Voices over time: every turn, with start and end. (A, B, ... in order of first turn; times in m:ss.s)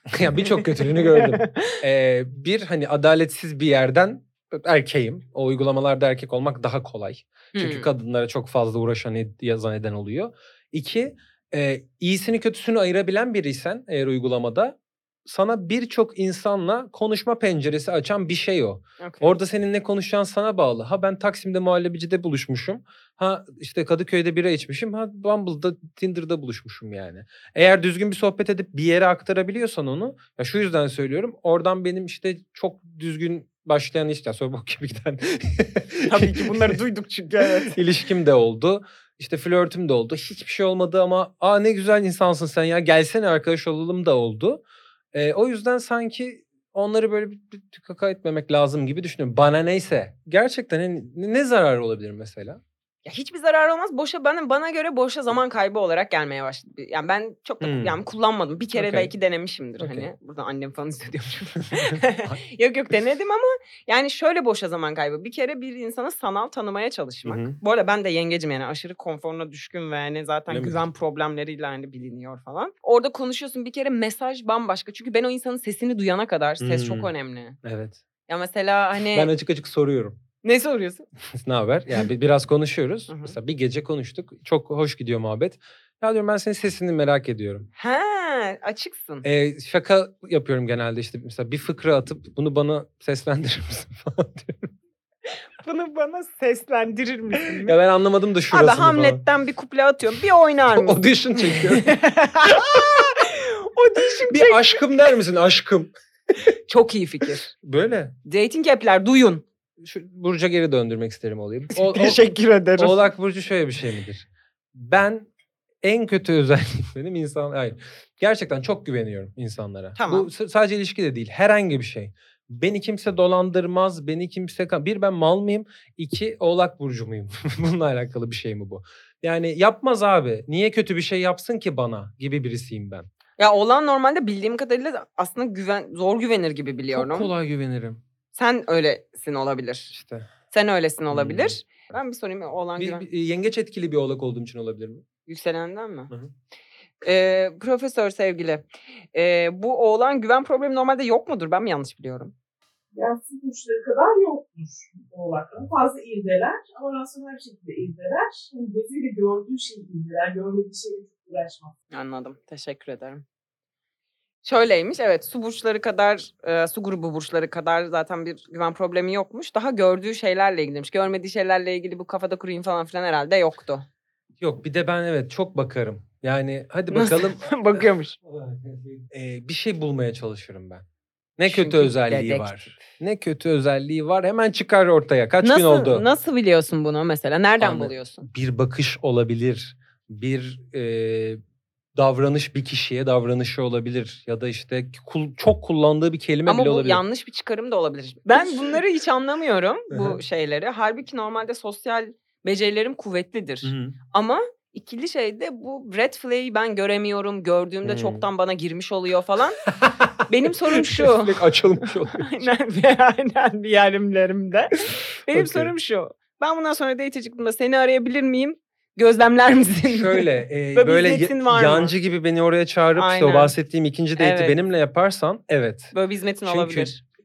0:00.1-0:36.8 A
0:00.4-0:01.8 B
0:07.5-0:07.9 B
0:19.0-0:19.4 B
0:36.0-0:37.8 B
0:37.4-0:44.6 A
0:45.1-0:52.6 A
0:53.0-1:17.6 B
0:57.6-0:58.0 A
0:58.8-0:59.1 A
0:59.8-1:00.1 A
1:01.8-1:02.4 A
1:07.2-1:07.6 A
1:10.5-1:10.8 A
1:16.6-1:17.1 A
1:17.6-1:18.0 A
1:18.3-1:19.3 B
1:19.1-1:20.2 A
1:20.4-1:21.1 B
1:21.4-1:27.7 A
1:23.1-1:23.4 B
1:27.8-1:29.2 B
1:29.2-1:34.7 A
1:35.6-1:37.8 B
1:37.5-1:39.2 A
1:38.5-1:44.8 B
1:40.7-1:43.0 A
1:44.3-1:45.9 A
1:46.7-1:47.5 B
1:47.6-1:48.2 A
1:48.3-1:49.4 B
1:49.8-1:52.2 A
1:51.7-1:53.1 B
1:52.8-1:55.3 A
1:55.8-2:13.1 A
2:00.0-2:00.3 B
2:13.4-2:17.3 B
2:16.9-2:18.0 A
2:18.4-2:19.9 B
2:19.9-2:20.3 A
2:20.5-2:23.0 B
2:21.1-2:21.6 A
2:22.8-2:25.0 A
2:25.3-2:26.1 B
2:27.0-2:32.3 B
2:32.9-2:41.8 C
2:41.9-2:43.2 B
2:44.4-2:53.9 B
2:54.4-3:00.8 A
2:56.9-2:58.2 B
3:01.4-3:06.1 A
3:01.5-3:02.9 B
3:05.4-3:08.3 B
3:07.6-3:11.4 A
3:12.0-3:17.0 A
3:16.5-3:29.6 B
3:18.4-3:18.8 A
3:19.9-3:20.2 A
3:23.6-3:24.0 A
3:27.8-3:28.2 A
3:29.7-3:32.5 A
3:30.3-3:31.4 B
3:32.1-3:42.0 B
3:35.3-3:35.7 A
3:39.9-3:45.9 A
3:43.0-3:43.5 B
3:44.2-3:44.6 B
3:45.9-3:47.0 B
3:46.4-3:46.9 A